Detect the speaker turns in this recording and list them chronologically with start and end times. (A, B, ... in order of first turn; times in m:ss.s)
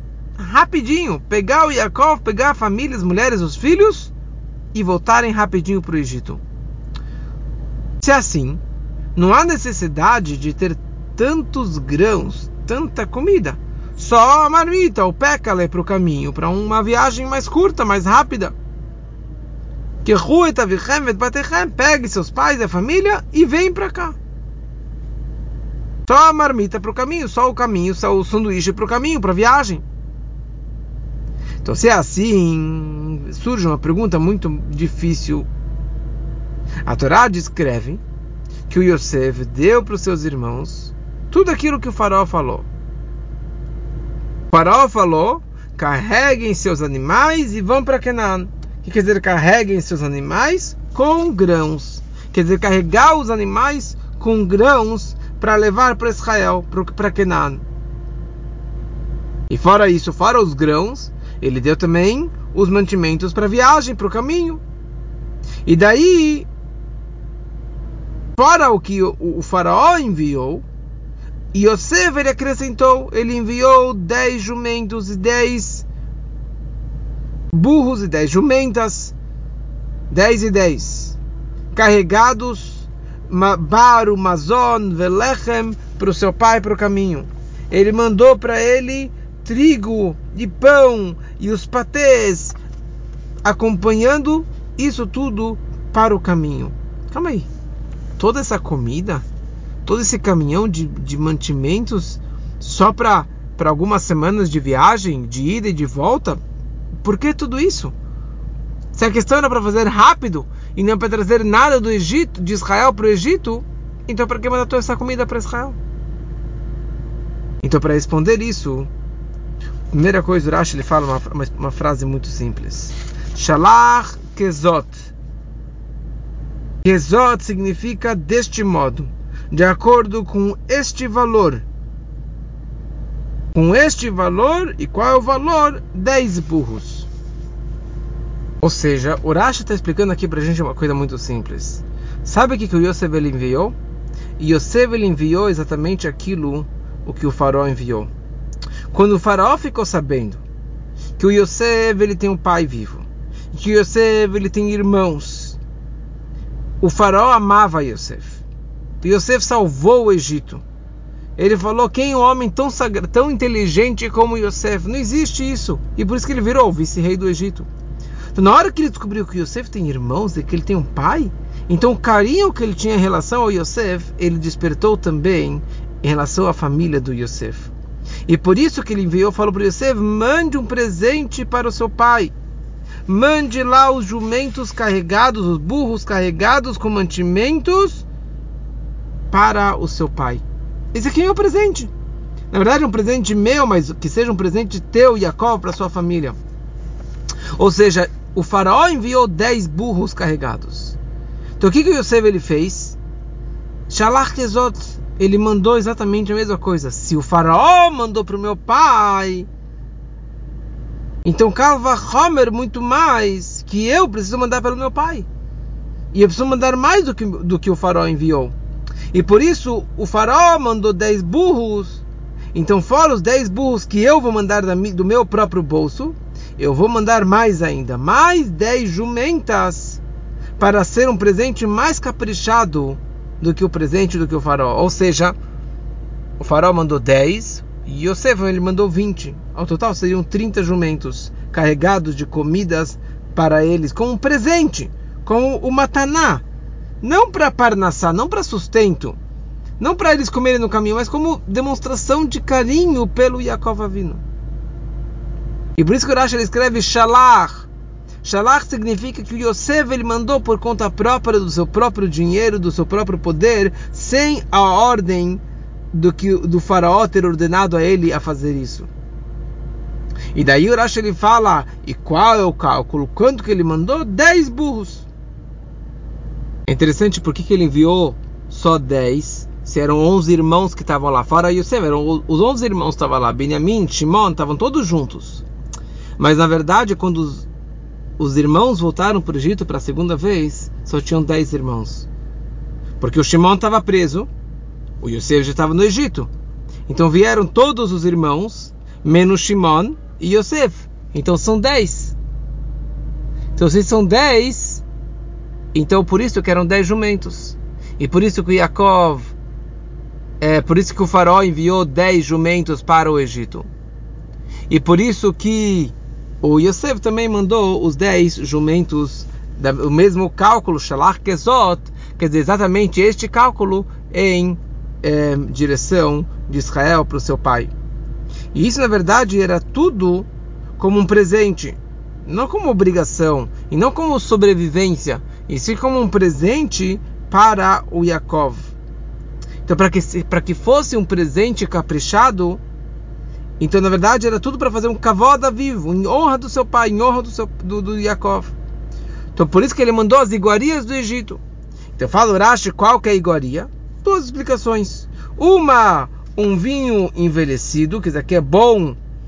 0:00.4-0:04.1 A
0:04.7-0:06.4 A
0:08.0-0:08.6 A
0:09.2-0:18.6 A
0:20.0-0:24.2 A
0:26.1-0:29.8 A
0:31.6-0:35.5 A
0:36.8-0:38.0 A
0:38.7-0:42.7 A
0:44.5-0:57.6 A
0:59.5-1:04.6 A
1:05.6-1:06.5 A
1:08.4-1:10.6 A
1:11.5-1:15.9 A
1:17.5-1:19.1 A
1:20.1-1:21.2 A
1:21.7-1:32.6 A
1:33.4-1:37.5 A
1:38.2-1:39.2 A
1:39.8-1:46.4 A
1:47.0-1:47.9 A
1:48.9-1:55.8 A
1:57.6-1:58.9 A
1:59.9-2:05.1 A
2:06.8-2:11.6 A
2:13.5-2:17.1 A
2:18.6-2:23.8 A
2:24.4-2:28.1 A
2:28.9-2:30.4 A
2:31.2-2:35.6 A
2:36.8-2:38.4 A
2:39.0-2:40.6 A
2:41.4-2:47.7 A
2:48.3-2:57.7 A
2:58.3-3:02.3 A
3:03.1-3:08.1 A
3:09.3-3:10.4 A
3:10.9-3:11.9 A
3:12.5-3:16.4 A
3:17.6-3:21.0 A
3:21.6-3:23.0 A
3:23.9-3:29.5 A
3:31.2-3:35.3 A
3:36.1-3:38.6 A
3:39.1-3:50.0 A
3:50.6-3:55.4 A
3:56.4-4:06.4 A
4:07.0-4:09.2 A
4:09.8-4:14.2 A
4:15.8-4:17.7 A
4:18.2-4:25.4 A
4:25.9-4:28.9 A
4:30.3-4:35.1 A
4:36.7-4:45.4 A
4:46.2-4:47.5 A
4:48.2-4:52.1 A
4:53.0-4:54.3 A
4:55.0-4:56.3 A
4:56.9-5:02.2 A
5:03.6-5:04.8 A
5:05.7-5:09.3 A
5:10.4-5:13.7 A
5:14.7-5:27.7 A
5:28.5-5:38.7 A
5:39.6-5:42.6 A
5:43.6-5:48.5 A
5:49.4-5:51.4 A
5:52.0-5:59.0 A